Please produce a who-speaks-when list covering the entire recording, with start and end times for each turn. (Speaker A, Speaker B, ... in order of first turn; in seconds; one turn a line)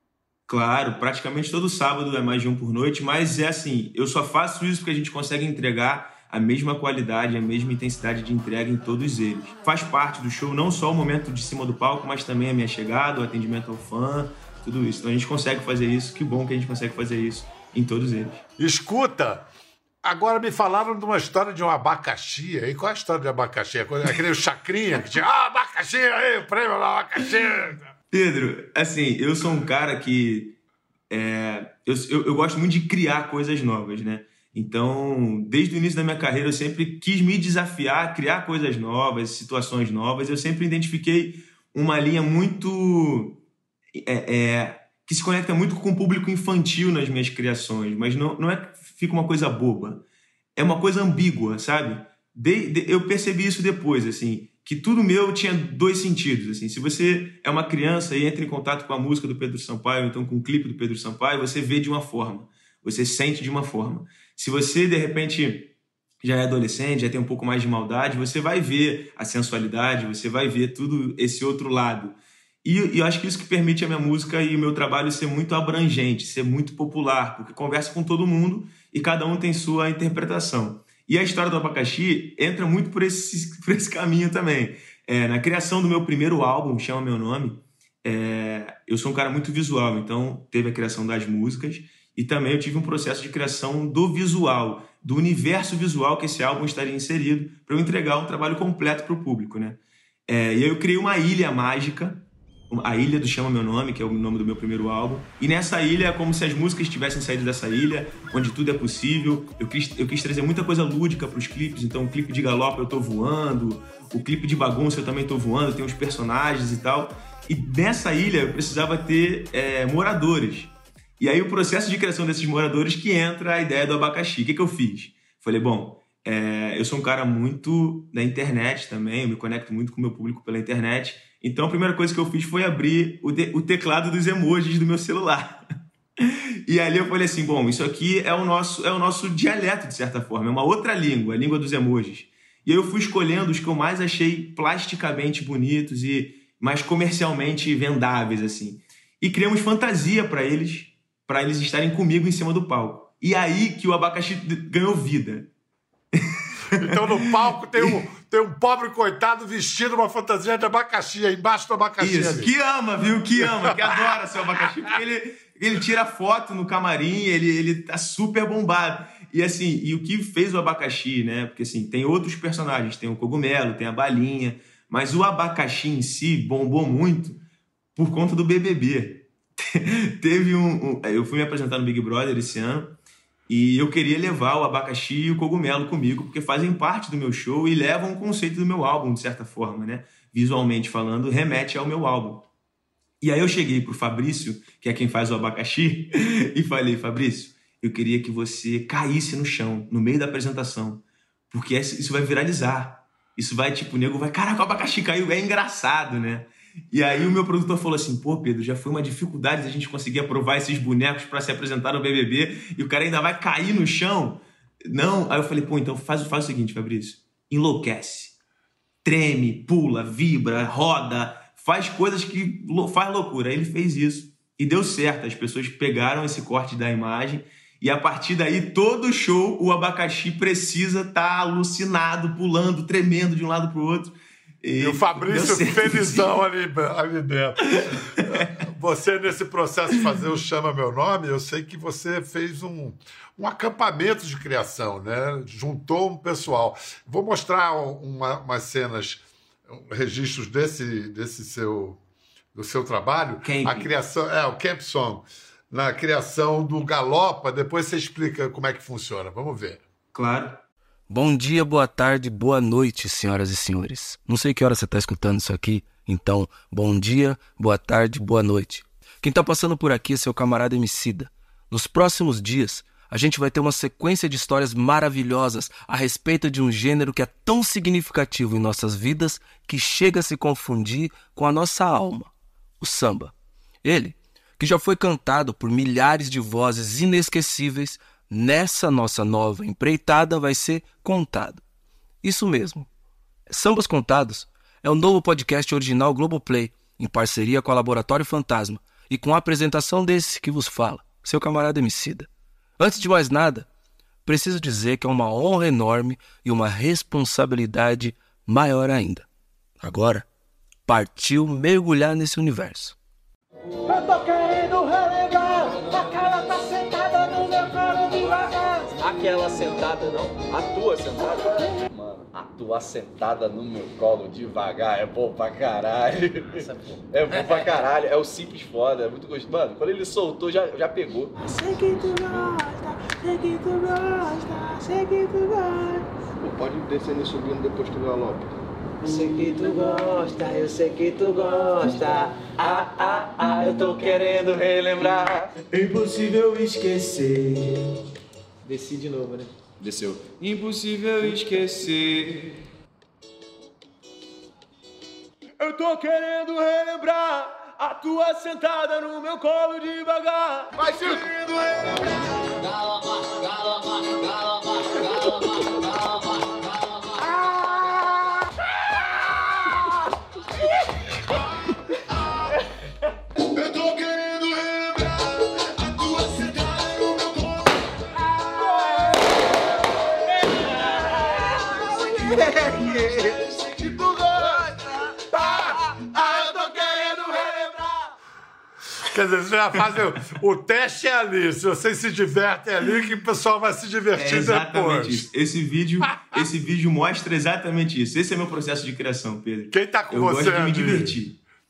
Speaker A: 0.5-18.4
Speaker B: 18.6-19.5
Speaker B: 20.0-27.9
Speaker A: 28.1-30.6
Speaker A: 31.1-43.4
Speaker A: 43.9-50.0
Speaker A: 50.6-65.7
Speaker A: 66.2-135.6
Speaker A: 136.2-155.5
Speaker A: 156.1-158.0
Speaker B: 156.7-162.5
Speaker A: 162.0-177.4
Speaker A: 178.0-182.9
Speaker A: 183.5-192.5
Speaker A: 193.2-218.4
Speaker A: 219.0-236.4
Speaker B: 234.8-252.0
Speaker A: 237.9-238.6
Speaker B: 252.5-259.8
Speaker A: 253.4-253.9
Speaker A: 260.1-260.6
Speaker C: 261.1-283.3
Speaker C: 283.8-291.6
Speaker C: 292.2-292.9
Speaker C: 293.5-303.7
Speaker C: 304.3-309.3
Speaker C: 309.8-310.3
Speaker C: 310.9-312.9
Speaker D: 313.9-331.3
Speaker D: 336.4-338.5
Speaker E: 346.0-346.7
Speaker D: 349.8-350.2
Speaker E: 350.4-352.5
Speaker E: 355.9-356.6
Speaker E: 359.0-360.2
Speaker E: 373.9-374.7
Speaker B: 382.4-383.1
Speaker B: 386.3-387.0
Speaker B: 389.0-395.3
Speaker A: 394.1-401.4
Speaker B: 399.7-401.2